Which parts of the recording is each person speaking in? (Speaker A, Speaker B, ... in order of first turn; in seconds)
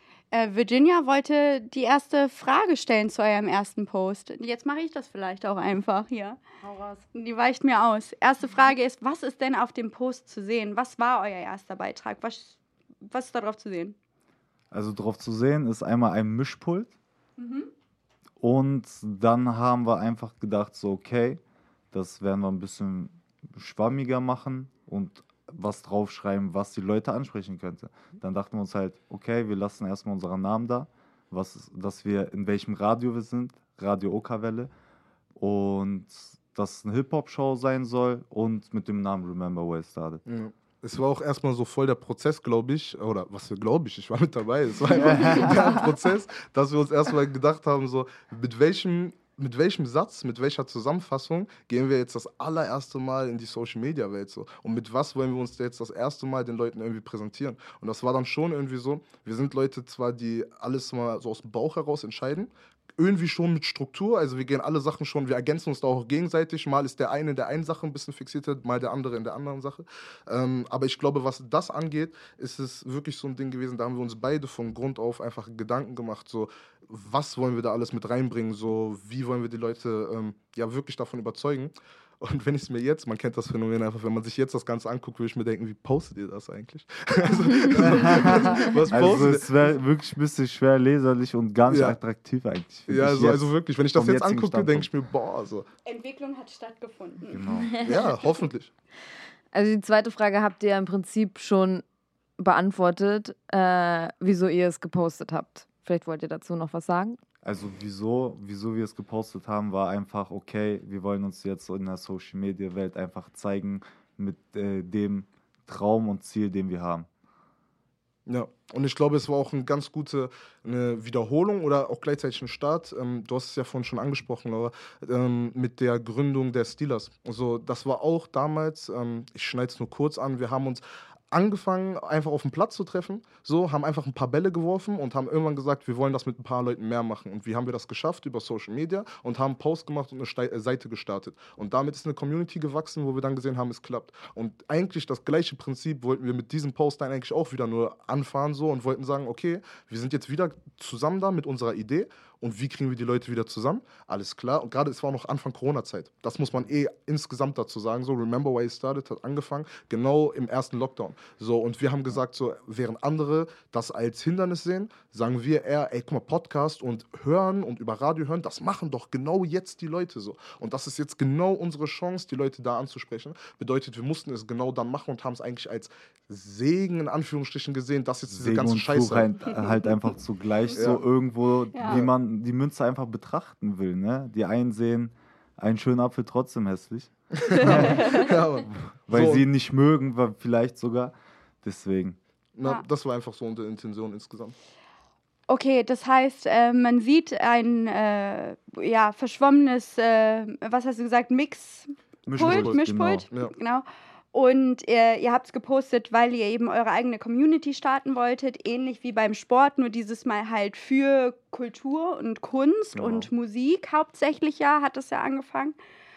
Speaker A: 0.3-6.4, 7.1-14.0, 17.4-17.7, 95.8-97.5, 181.7-182.0, 187.8-188.1, 195.5-215.8
Speaker B: 6.6-7.0, 99.5-101.8, 102.4-107.2
Speaker C: 14.7-16.9, 18.4-21.4, 21.9-34.7, 35.4-40.2, 45.1-45.6, 87.8-94.9, 97.3-97.8, 107.4-117.1, 178.3-192.2, 202.3-203.2, 212.9-213.3
Speaker D: 40.2-89.5, 91.7-92.0, 92.9-95.7, 97.8-98.7, 118.3-179.3, 180.8-181.0, 187.4-189.4, 192.6-194.5, 202.4-202.8